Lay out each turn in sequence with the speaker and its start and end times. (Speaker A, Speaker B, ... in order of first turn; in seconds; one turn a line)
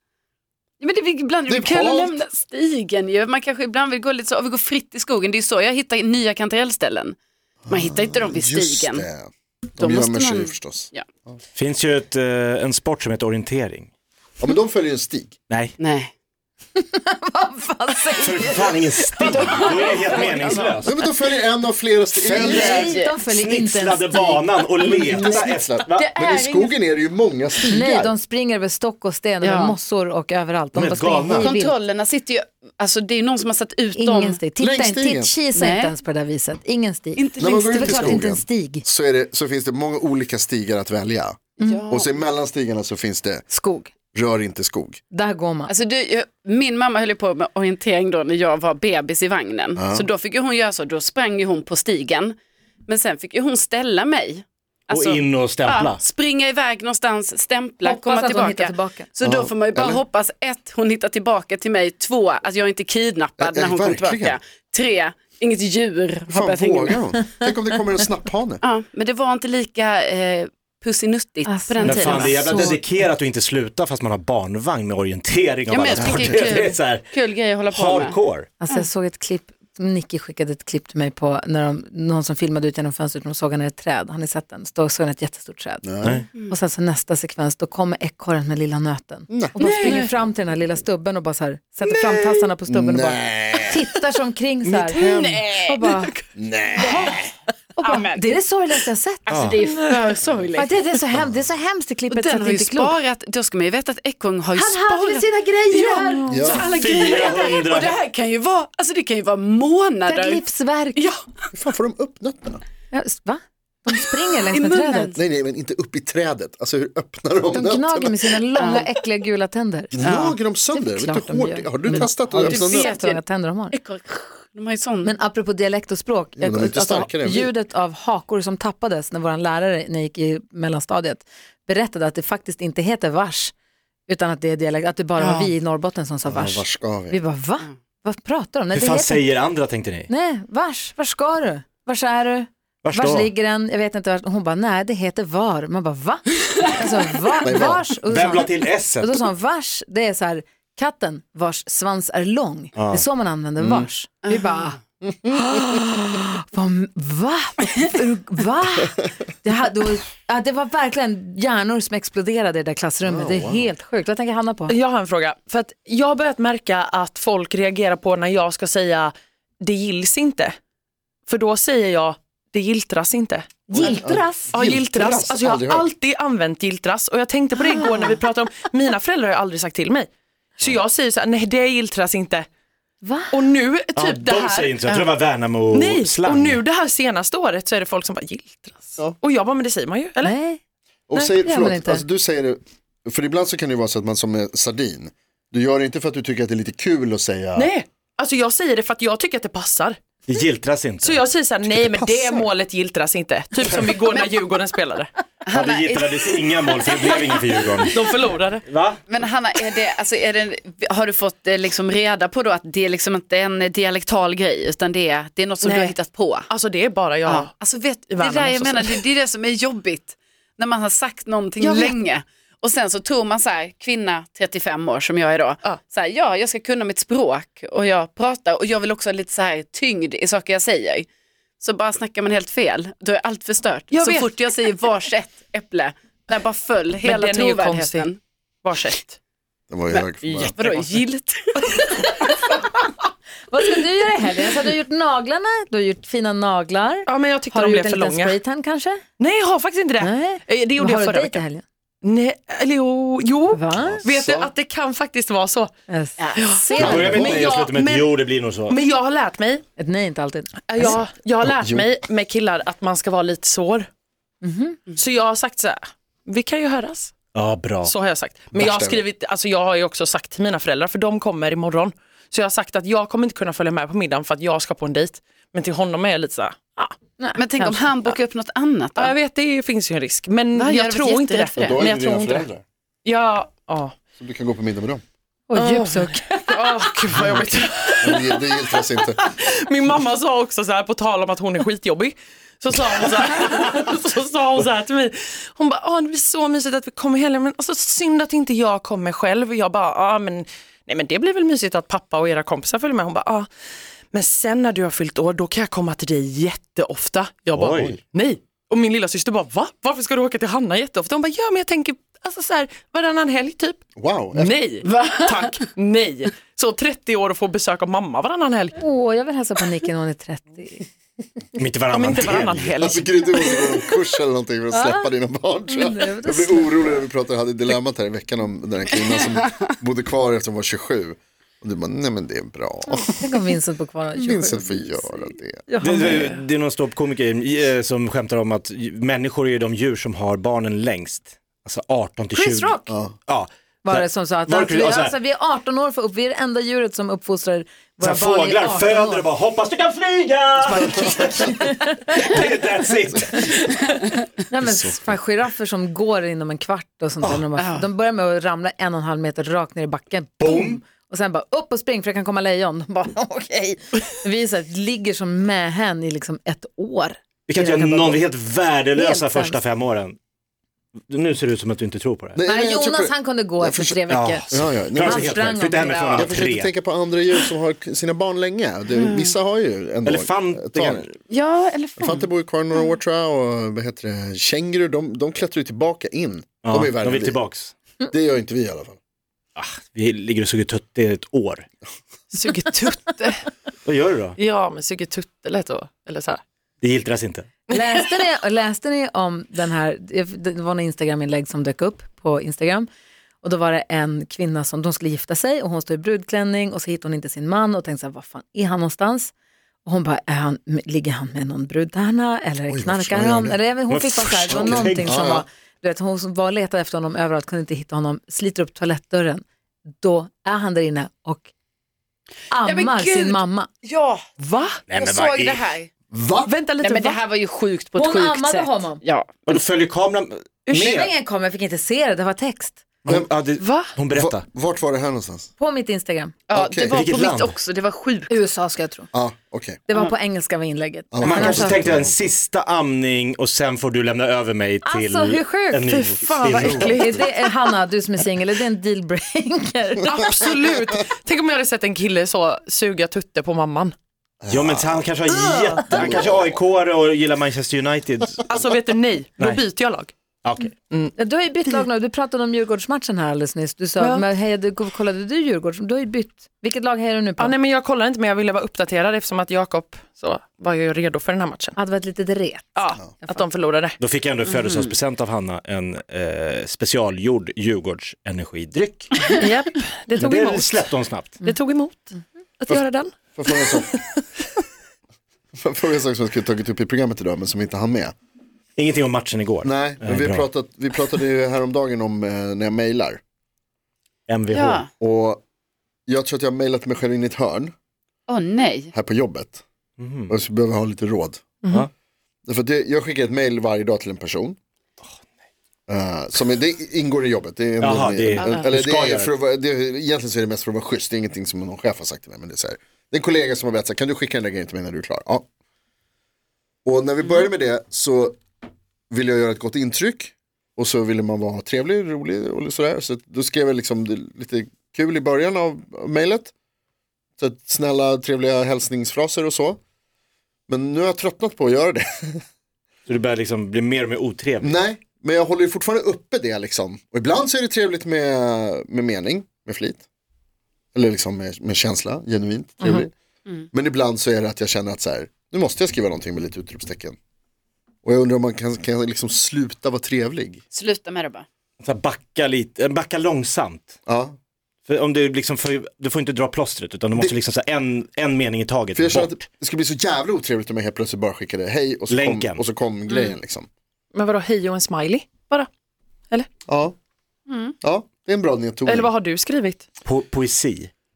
Speaker A: 0.8-7.2
Speaker B: 1.5-2.2
Speaker B: 7.6-11.4
Speaker A: 7.7-9.1
Speaker A: 9.8-11.1
Speaker C: 11.6-13.9
Speaker B: 14.4-15.3
Speaker C: 15.5-15.8
Speaker A: 15.8-16.1
Speaker D: 16.8-20.6
Speaker C: 18.2-20.9
Speaker A: 19.2-20.8
Speaker B: 20.8-22.7
Speaker C: 22.2-26.1
Speaker D: 22.3-24.5
Speaker A: 22.4-23.1
Speaker A: 24.8-26.8
Speaker B: 24.9-28.1
Speaker D: 27.7-31.8
Speaker A: 29.4-29.8
Speaker C: 30.8-31.6
Speaker A: 31.4-34.4
Speaker D: 34.0-38.9
Speaker B: 34.6-35.3
Speaker A: 35.5-35.9
Speaker A: 37.2-38.2
Speaker B: 37.4-43.5
Speaker A: 41.6-42.2
Speaker D: 43.5-43.9
Speaker B: 44.1-45.0
Speaker D: 45.1-45.7
Speaker A: 45.7-52.4
Speaker B: 49.8-50.1
Speaker A: 52.9-67.0
Speaker C: 54.9-56.0
Speaker D: 57.8-59.1
Speaker B: 59.2-60.0
Speaker B: 63.4-64.4
Speaker B: 66.3-68.6
Speaker A: 68.6-72.6
Speaker D: 71.5-72.8
Speaker C: 71.8-77.1
Speaker A: 75.7-78.2
Speaker B: 75.9-76.6
Speaker C: 77.7-78.5
Speaker D: 78.6-95.0
Speaker B: 85.8-86.2
Speaker B: 89.3-89.5
Speaker E: 89.6-90.1
Speaker A: 89.6-90.0
Speaker B: 91.8-93.8
Speaker C: 94.7-95.4
Speaker A: 94.8-95.8
Speaker D: 95.7-96.2
Speaker B: 96.4-97.2
Speaker D: 96.8-97.2
Speaker D: 97.8-99.3
Speaker A: 97.8-98.2
Speaker A: 99.3-100.7
Speaker C: 99.3-99.5
Speaker E: 99.7-100.0
Speaker D: 100.6-102.9
Speaker A: 102.1-110.4
Speaker D: 104.5-106.6
Speaker E: 106.2-106.5
Speaker B: 106.3-106.7
Speaker C: 106.7-108.0
Speaker D: 110.1-111.0
Speaker A: 111.0-111.2
Speaker B: 111.5-112.6
Speaker D: 112.9-115.2
Speaker A: 114.5-115.2
Speaker B: 115.2-118.3
Speaker D: 117.5-119.9
Speaker A: 118.6-118.9
Speaker B: 119.9-122.9
Speaker A: 120.0-120.4
Speaker D: 120.7-123.8
Speaker A: 122.0-123.2
Speaker A: 123.7-125.1
Speaker D: 125.0-133.5
Speaker B: 126.4-127.5
Speaker D: 134.1-139.3
Speaker A: 135.2-135.5
Speaker B: 136.2-137.2
Speaker C: 138.7-140.1
Speaker D: 140.1-154.8
Speaker C: 142.8-143.3
Speaker B: 147.4-147.9
Speaker C: 148.1-149.2
Speaker C: 152.8-153.1
Speaker B: 153.6-153.9
Speaker A: 154.2-154.7
Speaker B: 155.0-155.5
Speaker D: 155.3-164.8
Speaker B: 163.0-163.7
Speaker E: 164.7-170.6
Speaker E: 171.3-173.5
Speaker D: 173.7-174.5
Speaker B: 173.7-175.9
Speaker E: 174.5-182.5
Speaker D: 183.0-183.3
Speaker E: 183.3-185.1
Speaker C: 184.0-186.6
Speaker E: 185.7-190.4
Speaker D: 190.2-190.6
Speaker B: 191.1-197.7
Speaker E: 191.1-191.4
Speaker D: 191.4-192.0
Speaker E: 197.6-200.0
Speaker C: 200.3-201.2
Speaker E: 201.0-205.1
Speaker B: 201.8-202.5
Speaker A: 204.1-204.4
Speaker A: 205.5-207.7
Speaker C: 205.5-208.1
Speaker E: 207.9-208.7
Speaker C: 208.7-209.0
Speaker A: 209.1-216.5
Speaker E: 216.5-217.5
Speaker A: 217.3-231.1
Speaker E: 218.1-219.0
Speaker E: 221.6-222.0
Speaker A: 231.6-238.2
Speaker E: 233.9-234.4
Speaker E: 237.0-239.2
Speaker B: 239.7-240.6
Speaker A: 239.9-242.3
Speaker D: 243.5-249.0
Speaker E: 247.1-248.4
Speaker E: 249.2-251.4
Speaker D: 250.0-251.6
Speaker E: 252.0-255.7
Speaker D: 253.5-254.1
Speaker B: 253.7-254.5
Speaker D: 255.9-257.4
Speaker A: 256.2-256.9
Speaker E: 256.4-259.6
Speaker B: 256.8-257.5
Speaker C: 256.8-258.8
Speaker D: 259.8-260.9
Speaker E: 260.7-263.9
Speaker B: 260.8-261.9
Speaker D: 264.4-264.8
Speaker E: 264.9-267.1
Speaker C: 267.3-267.9
Speaker E: 267.8-276.9
Speaker B: 268.5-269.0
Speaker D: 277.2-277.9
Speaker A: 277.4-279.1
Speaker E: 279.0-282.5
Speaker A: 280.6-281.8
Speaker B: 281.6-282.6
Speaker E: 283.1-283.9
Speaker B: 284.2-285.0
Speaker D: 285.5-286.7
Speaker E: 285.6-303.5
Speaker B: 288.0-289.2
Speaker E: 304.1-313.8
Speaker C: 307.6-307.9
Speaker B: 314.0-314.6
Speaker E: 314.3-318.8
Speaker A: 314.9-315.4
Speaker D: 318.8-320.9
Speaker C: 321.6-322.8
Speaker E: 321.9-323.2
Speaker B: 322.8-333.3
Speaker D: 324.7-325.1
Speaker D: 325.7-327.0
Speaker D: 332.9-336.3
Speaker B: 334.1-335.6
Speaker C: 335.8-345.1
Speaker D: 342.3-342.9
Speaker B: 342.9-343.2
Speaker D: 343.8-349.3
Speaker C: 348.0-353.7
Speaker D: 350.6-352.3
Speaker D: 354.5-368.2
Speaker C: 354.7-354.9
Speaker A: 357.6-357.9
Speaker C: 360.4-360.8
Speaker C: 367.5-370.2
Speaker D: 368.9-369.6
Speaker C: 371.1-372.4
Speaker B: 372.4-375.6
Speaker D: 372.4-376.3
Speaker C: 374.1-376.7
Speaker A: 375.8-376.2
Speaker B: 376.1-381.1
Speaker A: 379.0-379.3
Speaker C: 380.1-381.1
Speaker A: 381.3-382.3
Speaker B: 382.0-387.4
Speaker C: 386.6-387.7
Speaker B: 388.1-389.0
Speaker C: 389.6-391.7
Speaker E: 392.3-393.5
Speaker C: 393.9-394.4
Speaker E: 394.4-396.4
Speaker C: 396.8-397.5
Speaker E: 397.7-398.1
Speaker D: 397.7-402.9
Speaker D: 403.4-409.3
Speaker D: 409.9-419.4
Speaker B: 412.7-413.6
Speaker C: 413.9-415.1
Speaker B: 414.5-415.4
Speaker D: 420.0-421.5
Speaker D: 422.5-423.7
Speaker A: 422.6-424.2
Speaker E: 424.4-424.8
Speaker C: 424.9-425.6
Speaker A: 425.0-425.9
Speaker B: 426.1-426.5
Speaker E: 426.4-427.2
Speaker A: 426.8-429.4
Speaker D: 428.0-429.0
Speaker C: 429.5-431.1
Speaker D: 430.7-432.8
Speaker C: 433.1-434.4
Speaker E: 433.6-433.9
Speaker B: 434.1-435.5
Speaker D: 435.6-436.4
Speaker A: 436.5-438.3
Speaker B: 436.5-437.0
Speaker C: 436.9-437.6
Speaker D: 438.3-439.1
Speaker B: 439.1-439.8
Speaker D: 439.9-441.8
Speaker B: 441.1-442.3
Speaker C: 441.2-447.1
Speaker D: 444.9-445.9
Speaker E: 445.8-447.7
Speaker B: 446.6-446.9
Speaker D: 446.7-450.3
Speaker E: 450.0-453.9
Speaker B: 454.4-455.1
Speaker C: 454.5-458.4
Speaker B: 455.9-456.6
Speaker E: 458.5-460.1
Speaker C: 460.4-460.7
Speaker D: 461.2-467.6
Speaker E: 464.0-464.3
Speaker E: 467.4-471.8
Speaker D: 471.8-472.7
Speaker E: 472.8-474.0
Speaker C: 474.0-479.1
Speaker A: 474.6-474.9
Speaker E: 479.3-480.9
Speaker C: 480.2-481.4
Speaker E: 481.4-484.2
Speaker B: 482.7-483.9
Speaker B: 485.6-488.1
Speaker C: 488.8-490.5
Speaker B: 489.6-493.2
Speaker C: 494.3-494.8
Speaker A: 494.5-494.9
Speaker B: 495.0-495.4
Speaker B: 496.1-497.7
Speaker A: 498.3-498.9
Speaker B: 498.9-499.6
Speaker C: 500.0-500.3
Speaker B: 500.3-501.6
Speaker B: 502.5-504.6
Speaker B: 505.9-515.5
Speaker C: 507.8-509.3
Speaker B: 516.9-518.4
Speaker B: 519.1-526.5
Speaker B: 527.4-529.8
Speaker B: 530.7-532.4
Speaker C: 533.1-534.7
Speaker B: 534.6-540.0
Speaker B: 541.0-543.1
Speaker B: 543.7-547.2
Speaker B: 548.0-550.6
Speaker A: 550.7-551.5
Speaker C: 551.8-554.0
Speaker B: 554.1-554.4
Speaker C: 554.9-559.4
Speaker B: 559.0-563.7
Speaker C: 562.1-562.6
Speaker A: 563.1-563.3
Speaker E: 564.1-565.7
Speaker B: 566.7-567.0
Speaker A: 567.5-567.7
Speaker B: 567.8-569.1
Speaker E: 568.9-569.8
Speaker C: 570.0-570.9